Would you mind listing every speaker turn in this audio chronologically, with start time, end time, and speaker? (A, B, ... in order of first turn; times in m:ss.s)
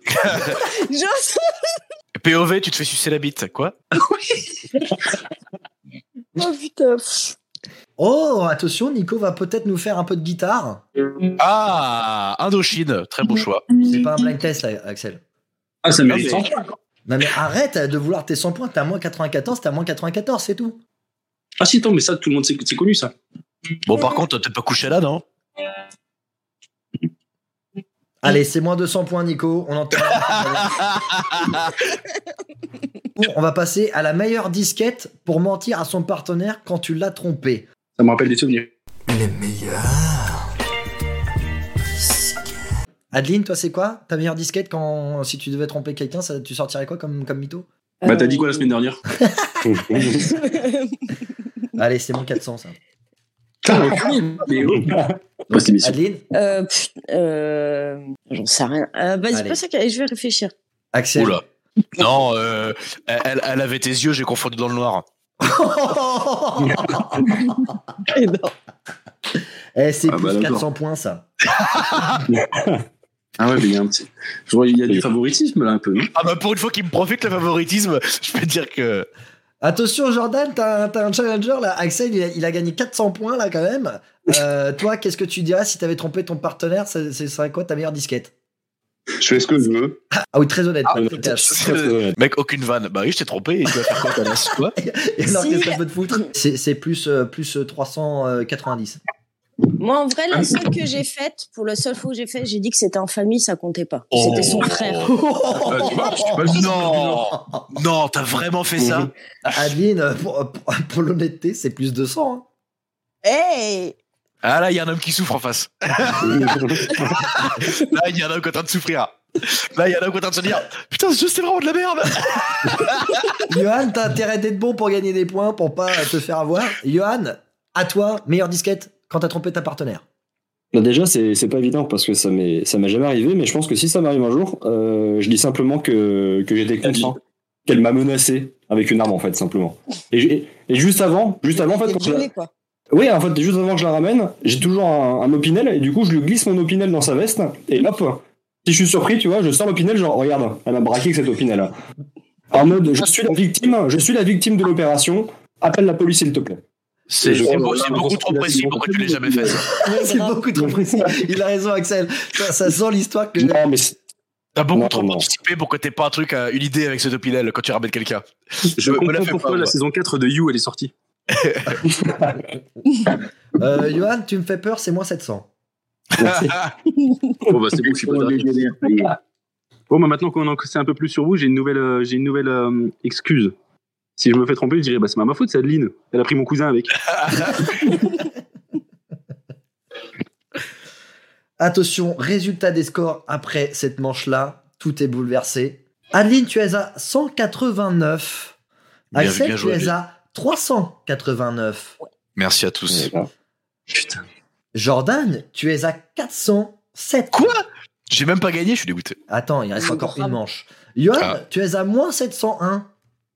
0:00.1-0:00.6 A
0:00.5-0:01.5 B
0:02.1-0:03.8 A
0:06.4-0:07.3 B
0:08.0-0:10.8 C
0:11.4-0:13.7 A
0:13.8-0:15.2 C
0:15.8-0:16.6 D
0:16.1-0:16.4 A
0:17.0-0:20.8 C
0:21.6-0:23.1 D
0:23.8-0:25.2 A
0:28.2-0:30.8 C
0:30.1-0:31.8 A
0:33.2-0:37.7 C
0:38.0-0:38.7 D
0:39.1-0:40.5 C
0:42.0-0:42.6 C
0:43.1-0:47.6 C
0:48.0-0:48.7 B
0:48.0-0:49.0 D
0:49.2-0:50.1 C
0:49.6-0:50.4 E
0:50.0-0:51.0 B
0:51.8-0:52.8 C
0:53.7-0:54.1 E
0:53.7-0:55.0 D
0:54.8-0:55.2 E
0:55.5-0:56.0 D
0:55.8-0:56.2 C
0:56.3-1:00.5 B
0:59.3-0:59.6 C
1:00.9-1:01.4 C
1:01.2-1:01.4 A
1:02.0-1:05.0 A
1:05.4-1:07.7 C
1:08.1-1:08.5 B
1:09.8-1:11.2 C
1:10.1-1:10.6 D
1:11.5-1:12.2 A
1:12.3-1:12.8 E
1:13.4-1:16.1 D
1:16.1-1:19.1 A
1:19.6-1:28.3 C
1:29.2-1:30.0 F
1:30.2-1:31.7 C
1:30.9-1:34.7 A
1:30.9-1:32.2 E
1:34.7-1:39.0 C
1:35.2-1:36.2 B
1:39.8-1:45.2 B
1:44.1-1:45.1 A
1:44.1-1:44.6 D
1:45.0-1:47.6 C
1:45.7-1:47.3 D
1:46.4-1:49.1 A
1:48.8-1:49.1 E
1:49.4-1:52.4 C
1:53.2-1:54.0 B
1:54.4-2:03.4 A
1:56.2-1:57.2 E
2:03.5-2:10.0 C
2:10.7-2:22.3 E
2:21.5-2:22.5 B
2:22.9-2:31.7 E
2:32.5-2:36.6 E
2:37.1-2:39.7 A
2:37.2-2:37.7 E
2:37.4-2:39.6 F
2:37.7-2:38.4 D
2:39.7-2:43.6 C
2:39.8-2:40.4 B
2:40.6-2:41.3 E
2:43.4-2:44.0 E
2:44.6-2:49.7 A
2:44.7-2:45.3 E
2:48.8-2:50.9 D
2:51.3-2:51.8 A
2:51.9-2:52.4 E
2:53.6-2:55.5 C
2:56.2-2:56.7 A
2:56.2-2:56.5 E
2:57.5-2:58.5 D
2:57.8-2:59.1 F
2:59.9-3:03.5 D
3:04.2-3:06.9 D
3:07.1-3:07.8 A
3:11.6-3:18.5 C
3:19.1-3:22.0 C
3:19.1-3:19.9 A
3:22.4-3:23.1 A
3:22.9-3:23.3 E
3:24.7-3:27.6 C
3:27.3-3:29.2 A
3:29.3-3:32.9 C
3:29.8-3:30.4 B